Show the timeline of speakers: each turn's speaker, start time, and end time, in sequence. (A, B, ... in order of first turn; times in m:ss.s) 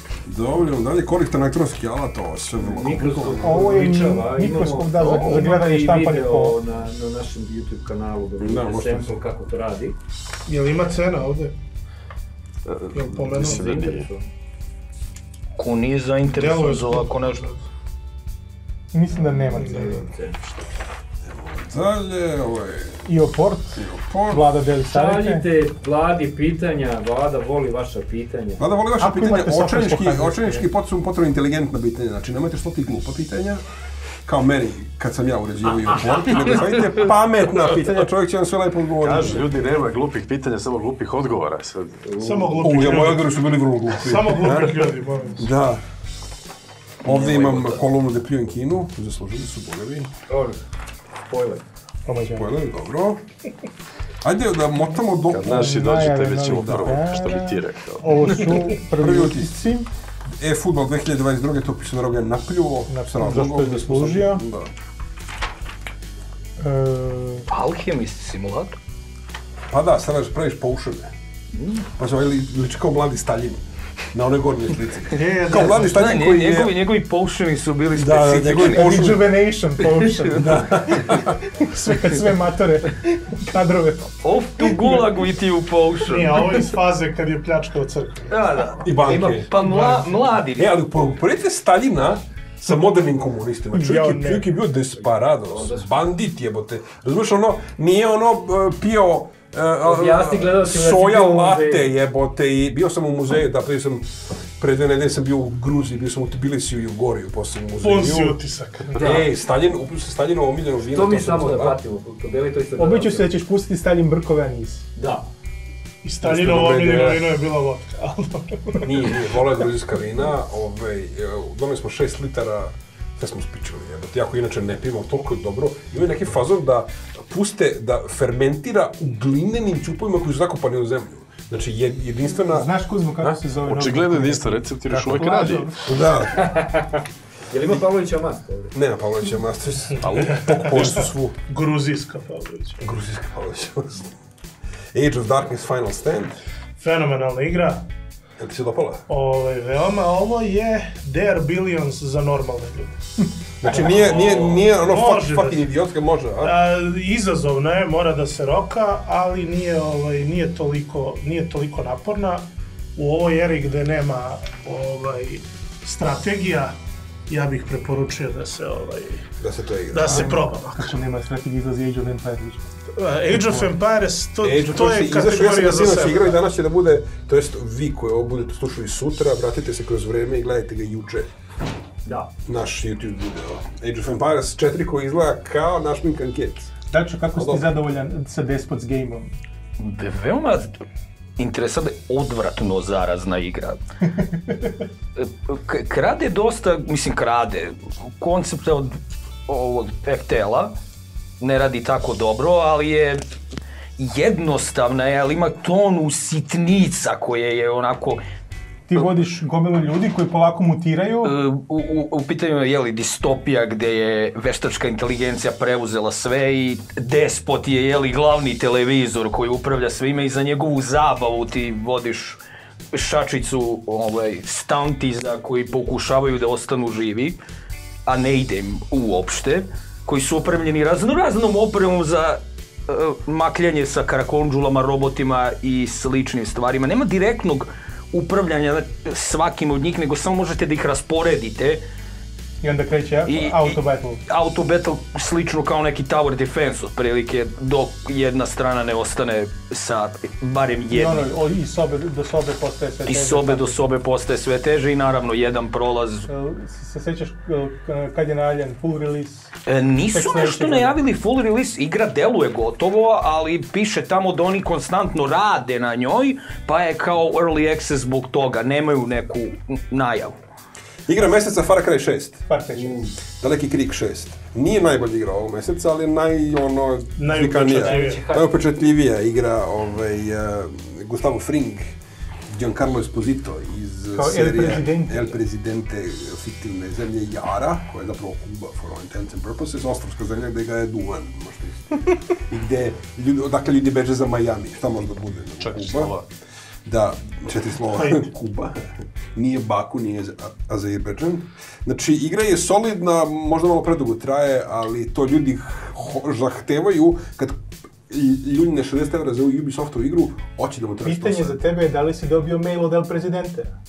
0:00.2-0:03.8 A
0:02.6-0:10.0 B
0:03.4-0:06.6 C
0:08.4-0:09.2 A
0:10.5-0:11.5 D
0:12.6-0:14.0 E
0:12.9-0:14.0 D
0:13.3-0:14.2 B
0:15.6-0:17.4 F
0:16.2-0:17.6 D
0:18.9-0:20.0 C
0:19.1-0:20.4 B
0:19.5-0:20.0 D
0:21.2-0:23.0 A
0:23.0-0:25.4 C
0:24.0-0:24.4 A
0:24.9-0:28.6 B
0:28.6-0:33.6 A
0:29.0-0:30.7 C
0:34.2-0:39.5 A
0:39.0-0:42.1 E
0:42.0-0:42.8 B
0:42.2-0:43.3 D
0:42.6-0:45.8 A
0:43.9-0:45.5 D
0:47.0-0:50.1 A
0:47.1-0:47.8 F
0:50.3-0:50.6 B
0:51.3-0:51.6 B
0:52.0-0:52.5 C
0:52.3-0:53.2 A
0:54.2-0:55.9 A
0:55.3-0:58.5 E
0:55.4-0:59.9 C
0:56.5-0:57.0 A
0:58.9-0:59.7 A
1:00.4-1:04.7 A
1:02.9-1:04.4 C
1:06.6-1:07.4 C
1:07.5-1:08.8 F
1:09.7-1:11.1 A
1:11.6-1:11.8 F
1:12.0-1:16.7 A
1:15.1-1:16.0 D
1:15.5-1:19.1 F
1:17.9-1:19.3 A
1:18.6-1:25.0 C
1:19.8-1:20.7 F
1:20.3-1:21.3 A
1:24.2-1:26.7 F
1:26.0-1:28.4 D
1:28.3-1:30.7 F
1:28.8-1:29.5 A
1:29.6-1:30.0 C
1:30.5-1:48.4 A
1:33.7-1:34.5 C
1:35.0-1:35.9 B
1:39.8-1:41.9 B
1:47.8-1:49.1 D
1:49.0-1:51.8 A
1:49.0-1:49.3 B
1:50.8-1:53.3 B
1:52.8-1:54.8 C
1:55.0-1:55.3 B
1:56.0-1:59.2 D
1:56.2-1:57.2 A
1:58.8-2:13.4 A
2:12.4-2:15.8 C
2:13.6-2:15.8 E
2:15.1-2:15.8 D
2:15.8-2:16.4 A
2:16.2-2:18.7 B
2:18.7-2:21.3 A
2:20.0-2:21.0 E
2:20.0-2:22.8 D
2:22.8-2:24.1 A
2:24.9-2:26.4 A
2:26.8-2:27.8 D
2:28.4-2:29.0 A
2:29.1-2:33.0 D
2:33.6-2:36.5 A
2:33.7-2:33.9 C
2:33.7-2:35.6 D
2:36.4-2:46.8 D
2:47.3-2:49.3 D
2:49.4-2:50.3 A
2:49.9-2:50.9 D
2:50.0-2:52.6 C
2:52.9-2:56.3 D
2:54.4-3:01.3 A
3:02.0-3:02.3 B
3:02.4-3:06.7 A
3:06.9-3:09.3 C
3:07.4-3:07.7 A
3:09.8-3:10.7 F
3:11.4-3:13.8 F
3:15.2-3:20.7 F
3:21.4-3:23.2 F
3:24.0-3:28.2 F
3:28.9-3:31.3 C
3:31.2-3:42.4 F
3:42.9-3:47.4 F
3:48.0-4:01.8 F
4:02.6-4:04.2 C
4:03.2-4:11.3 F
4:10.9-4:13.8 C
4:13.0-4:16.3 F
4:16.3-4:19.5 C
4:19.6-4:30.4 F
4:20.1-4:21.0 C
4:31.1-4:41.9 A
4:32.5-4:33.1 C
4:37.2-4:38.2 D
4:37.6-4:38.5 B
4:42.5-4:56.1 A
4:44.1-4:45.3 C
4:55.6-4:56.2 E
4:56.8-5:11.6 A
4:58.0-4:58.3 D
5:11.0-5:13.7 C